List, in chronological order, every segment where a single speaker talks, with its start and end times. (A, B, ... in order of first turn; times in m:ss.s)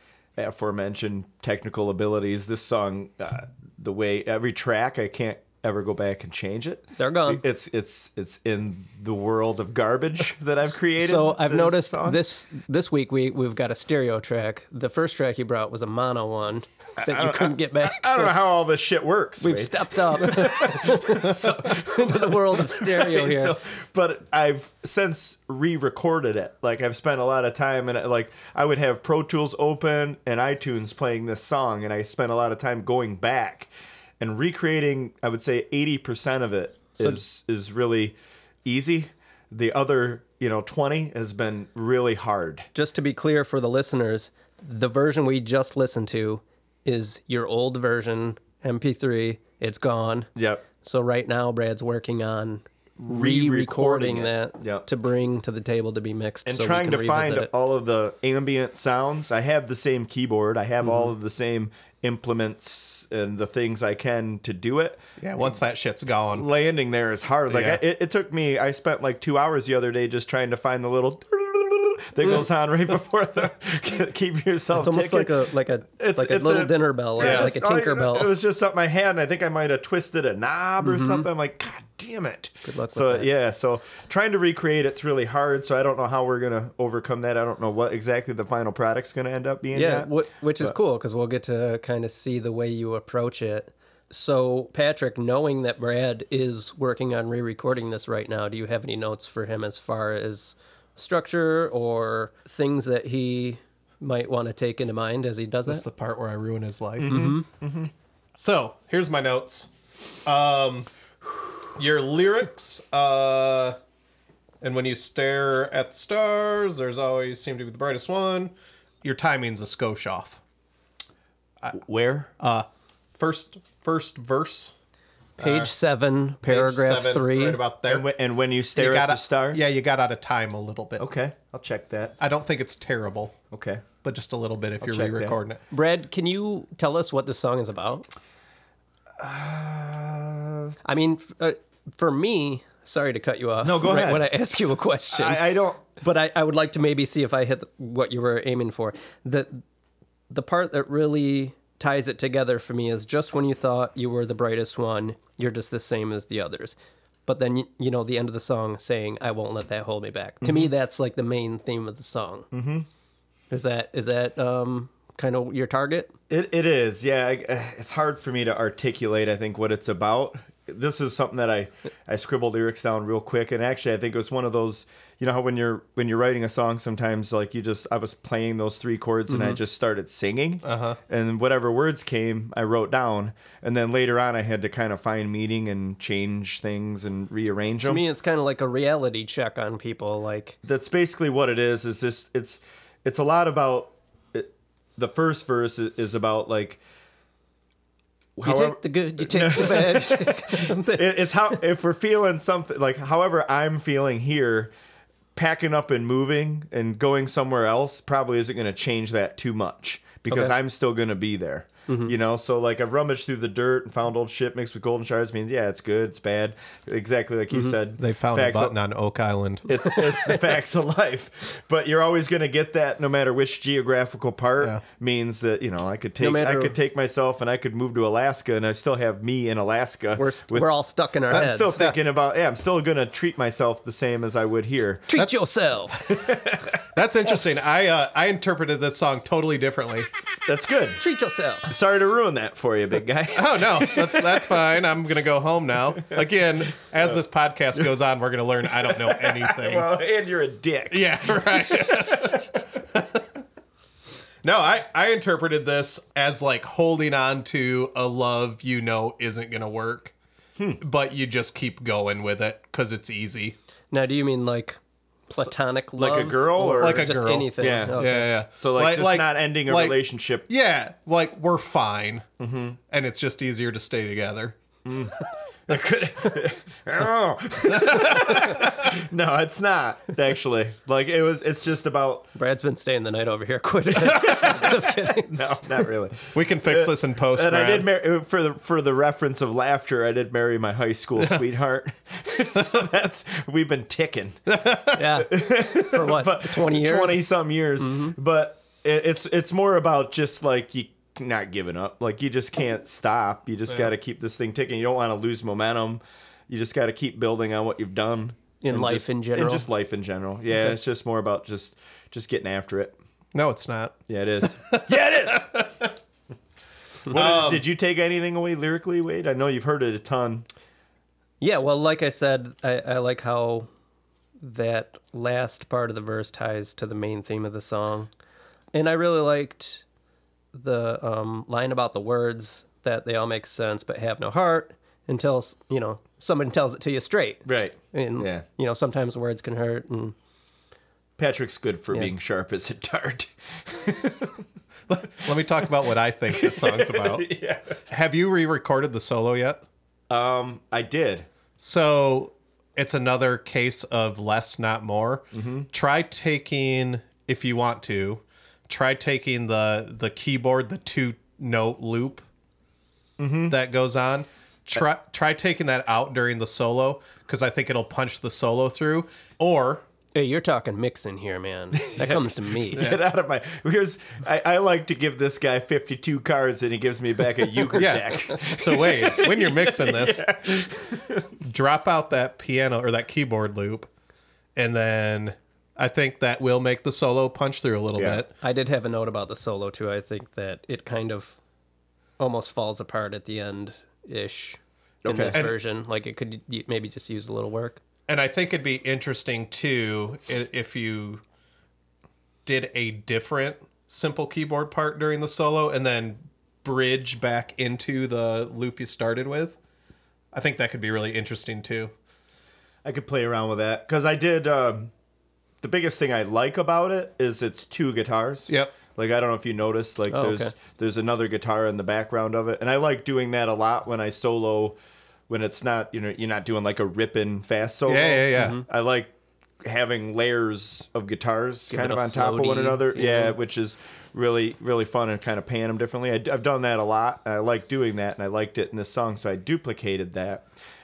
0:00.4-0:12.3 A
0:07.0-0:07.4 B
0:11.0-0:18.4 B
0:17.0-0:42.7 A
0:19.4-0:23.6 B
0:42.7-0:57.5 B
0:50.4-0:50.6 A
0:53.0-0:54.8 A
0:56.4-1:05.0 A
1:00.8-1:01.1 B
1:05.2-1:06.5 C
1:06.3-1:15.4 A
1:07.5-1:07.8 C
1:14.8-1:18.3 B
1:16.0-1:30.7 A
1:17.2-1:17.6 C
1:20.8-1:21.2 B
1:22.6-1:23.3 B
1:29.7-1:45.8 B
1:45.7-1:47.3 C
1:47.0-1:47.9 A
1:47.1-1:47.4 B
1:48.3-1:49.7 C
1:50.2-1:50.9 C
1:51.7-1:53.8 C
1:54.6-2:00.4 C
2:01.7-2:02.3 A
2:02.4-2:02.7 C
2:03.2-2:04.7 C
2:05.4-2:05.7 C
2:05.4-2:07.6 B
2:06.4-2:08.1 C
2:07.8-2:09.6 A
2:08.8-2:11.0 C
2:11.0-2:12.1 A
2:12.2-2:13.4 C
2:13.5-2:13.8 A
2:14.0-2:15.6 C
2:14.8-2:15.4 A
2:15.7-2:18.1 B
2:19.2-2:20.7 A
2:20.8-2:29.6 B
2:23.6-2:24.3 A
2:25.1-2:25.9 A
2:30.3-2:36.8 B
2:37.3-2:42.5 B
2:40.4-2:40.7 A
2:42.5-2:42.9 A
2:43.5-2:46.1 B
2:46.3-3:08.0 A
2:59.3-2:59.6 B
3:00.6-3:01.0 C
3:07.8-3:10.6 B
3:10.6-3:16.8 A
3:18.4-3:24.7 A
3:18.4-3:21.6 B
3:25.4-3:38.7 A
3:30.3-3:30.5 B
3:31.9-3:32.1 B
3:38.0-3:39.7 C
3:39.7-3:50.7 A
3:39.8-3:40.4 B
3:46.2-3:46.8 B
3:50.2-3:51.7 B
3:51.3-3:55.1 A
3:51.3-3:52.0 C
3:55.1-3:56.1 B
3:55.9-3:56.2 C
3:56.1-3:56.8 A
3:56.9-4:00.1 C
4:00.5-4:01.0 A
4:01.0-4:01.7 B
4:01.6-4:04.6 A
4:03.3-4:09.9 C
4:08.9-4:12.6 A
4:10.9-4:13.4 C
4:14.4-4:20.1 C
4:20.8-4:23.6 C
4:23.9-4:28.3 B
4:26.0-4:30.5 A
4:26.8-4:32.3 C
4:32.4-4:32.8 A
4:32.9-4:34.6 C
4:34.8-4:35.2 A
4:35.7-4:42.3 A
4:37.7-4:38.6 C
4:42.3-4:45.4 B
4:44.0-4:54.6 A
4:46.3-4:47.9 C
4:54.5-4:55.0 C
4:54.9-4:57.2 B
4:55.2-5:13.0 A
4:57.8-4:58.2 B
5:08.6-5:09.7 B
5:13.3-5:15.9 C
5:14.1-5:15.7 A
5:17.1-5:20.4 A
5:17.1-5:17.6 C
5:21.4-5:23.7 B
5:24.4-5:28.1 B
5:28.7-5:29.8 B
5:30.5-5:40.1 B
5:37.4-5:38.4 A
5:41.2-5:44.4 A
5:44.9-5:47.3 C
5:46.3-5:47.8 A
5:47.9-5:49.6 C
5:50.1-5:51.3 A
5:51.6-6:02.2 C
5:55.3-5:55.7 A
6:03.2-6:03.6 A
6:03.5-6:09.8 C
6:10.1-6:12.8 B
6:11.8-6:21.2 A
6:12.8-6:13.0 C
6:17.7-6:20.3 C
6:21.4-6:23.9 C
6:24.6-6:28.3 C
6:27.9-6:28.2 A
6:28.4-6:31.4 B
6:32.2-6:37.8 B
6:35.0-6:35.4 A
6:38.1-6:41.2 C
6:42.4-6:49.6 C
6:50.3-6:51.9 C
6:52.8-6:54.9 A
6:55.6-7:04.8 A
6:58.5-6:58.7 C
7:00.1-7:00.5 B
7:05.3-7:20.4 A
7:07.9-7:08.6 C
7:08.3-7:08.6 B
7:11.7-7:13.4 B